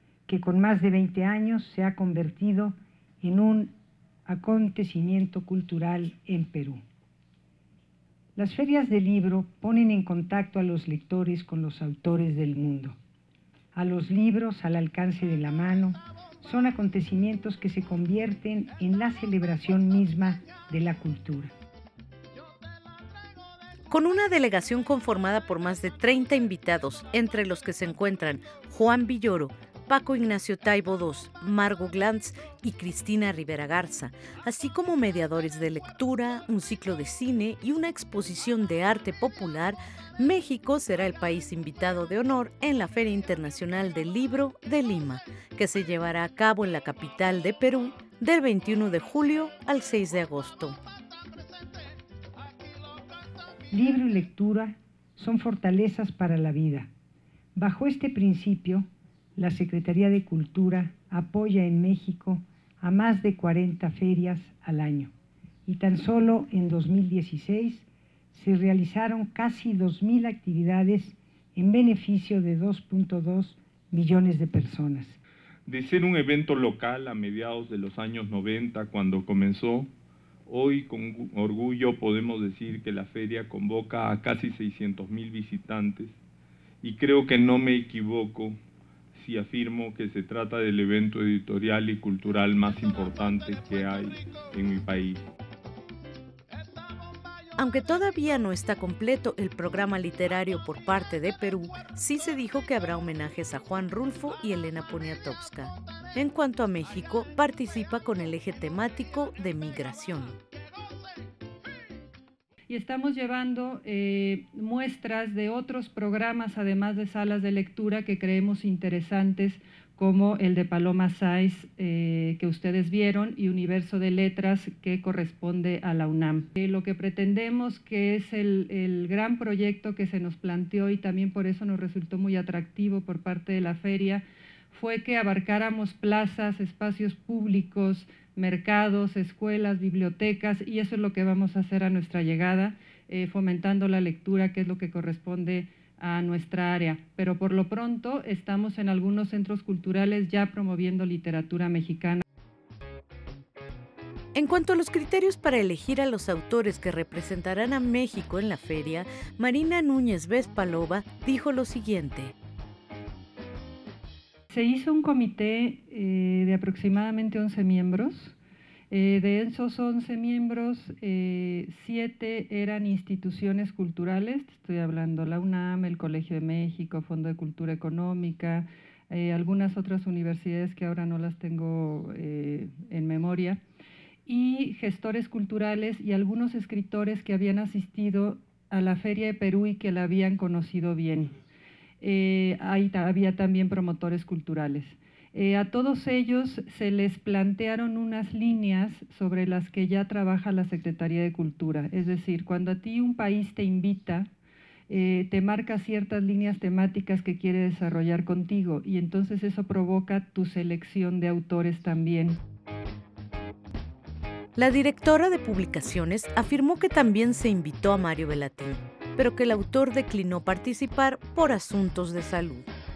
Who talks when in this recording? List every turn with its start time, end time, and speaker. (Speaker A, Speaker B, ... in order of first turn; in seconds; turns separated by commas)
Speaker A: 0.3-3.7, Speaker A: 4.2-6.8, Speaker A: 8.3-13.0, Speaker A: 13.7-21.5, Speaker B: 23.9-50.8, Speaker A: 53.7-56.9, Speaker A: 57.5-65.1, Speaker A: 65.7-75.2, Speaker C: 75.7-79.9, Speaker C: 80.5-86.2, Speaker C: 86.8-88.6, Speaker C: 89.1-95.2, Speaker B: 97.5-110.3, Speaker D: 112.7-152.2, Speaker B: 154.3-162.3, Speaker D: 164.5-168.3, Speaker D: 168.9-183.6, Speaker D: 184.2-191.3, Speaker D: 192.0-204.3, Speaker D: 204.9-212.4, Speaker B: 214.5-222.7